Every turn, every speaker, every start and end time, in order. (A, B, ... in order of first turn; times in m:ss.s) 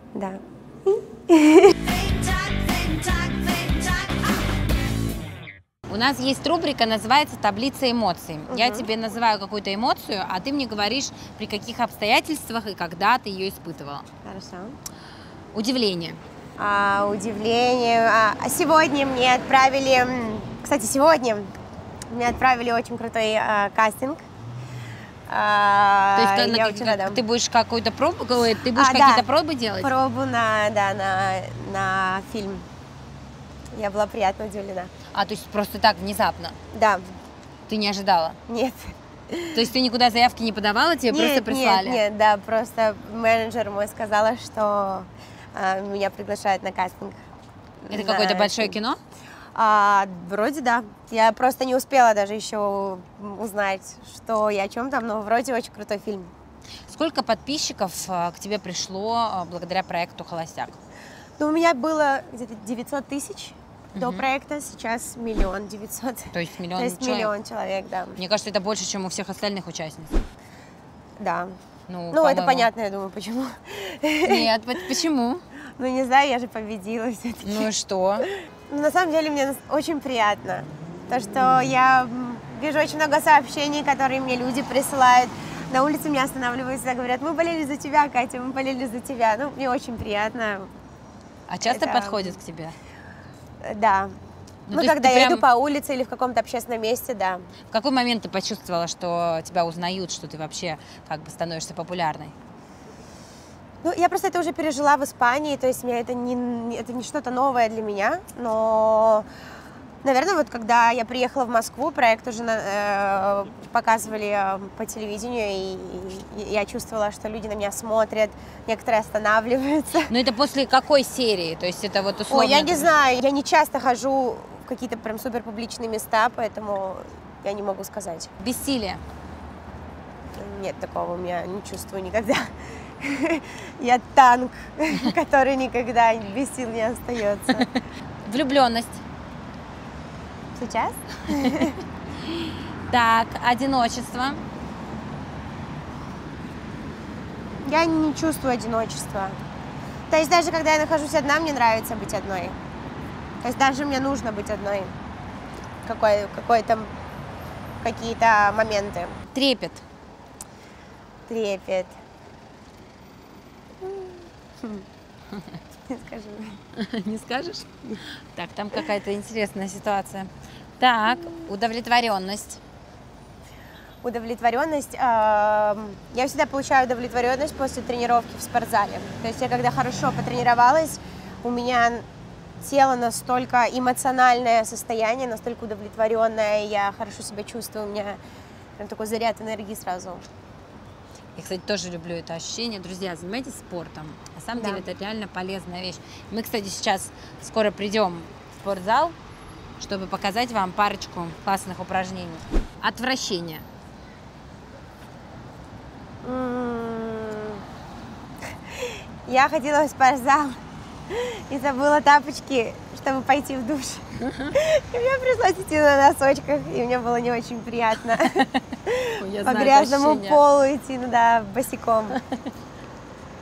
0:00.1-0:01.8 A
0:05.9-0:14.1 B
0:08.5-0:08.9 A
0:14.2-0:14.8 A
0:15.5-0:16.2 B
0:16.6-0:21.5 A
0:22.1-0:24.3 A
0:25.3-0:27.2 A
0:26.1-0:29.9 B
0:28.7-0:32.7 A
0:33.7-0:34.9 A
0:35.1-0:36.6 B
0:36.7-0:37.1 A
0:37.7-0:38.4 B
0:38.5-0:39.6 A
0:39.5-0:42.0 B
0:41.1-0:47.2 A
0:47.8-0:48.8 A
0:47.9-0:49.0 B
0:49.6-0:56.3 A
0:56.9-1:00.8 B
1:01.4-1:08.2 A
1:04.0-1:04.2 B
1:06.3-1:07.3 B
1:08.2-1:10.2 B
1:11.2-1:11.6 A
1:11.9-1:12.7 B
1:12.1-1:14.5 A
1:14.2-1:15.4 B
1:15.8-1:17.7 A
1:17.4-1:18.3 B
1:18.2-1:30.7 A
1:31.5-1:32.8 B
1:31.7-1:32.4 A
1:33.6-1:34.1 A
1:34.7-1:35.4 B
1:34.7-1:37.5 A
1:37.7-1:42.3 B
1:43.8-1:49.3 A
1:50.0-2:00.1 A
2:00.1-2:02.9 B
2:02.3-2:08.3 A
2:08.4-2:09.0 B
2:10.3-2:17.7 A
2:17.6-2:19.0 B
2:20.6-2:21.8 A
2:22.9-2:24.4 B
2:27.6-2:29.4 A
2:30.1-2:32.6 A
2:33.4-2:34.9 A
2:35.8-2:36.9 A
2:37.8-2:39.2 A
2:39.3-2:39.8 B
2:41.3-2:42.0 A
2:43.8-2:44.9 A
2:45.9-2:46.6 A
2:46.8-2:47.7 B
2:48.3-2:52.6 B
2:51.1-2:51.4 A
2:54.0-3:02.0 A
3:02.6-3:08.2 A
3:08.8-3:10.3 A
3:11.4-3:19.1 B
3:14.6-3:14.8 A
3:19.8-3:23.6 B
3:26.2-3:27.6 A
3:28.7-3:42.2 A
3:34.2-3:34.6 B
3:39.2-3:40.4 B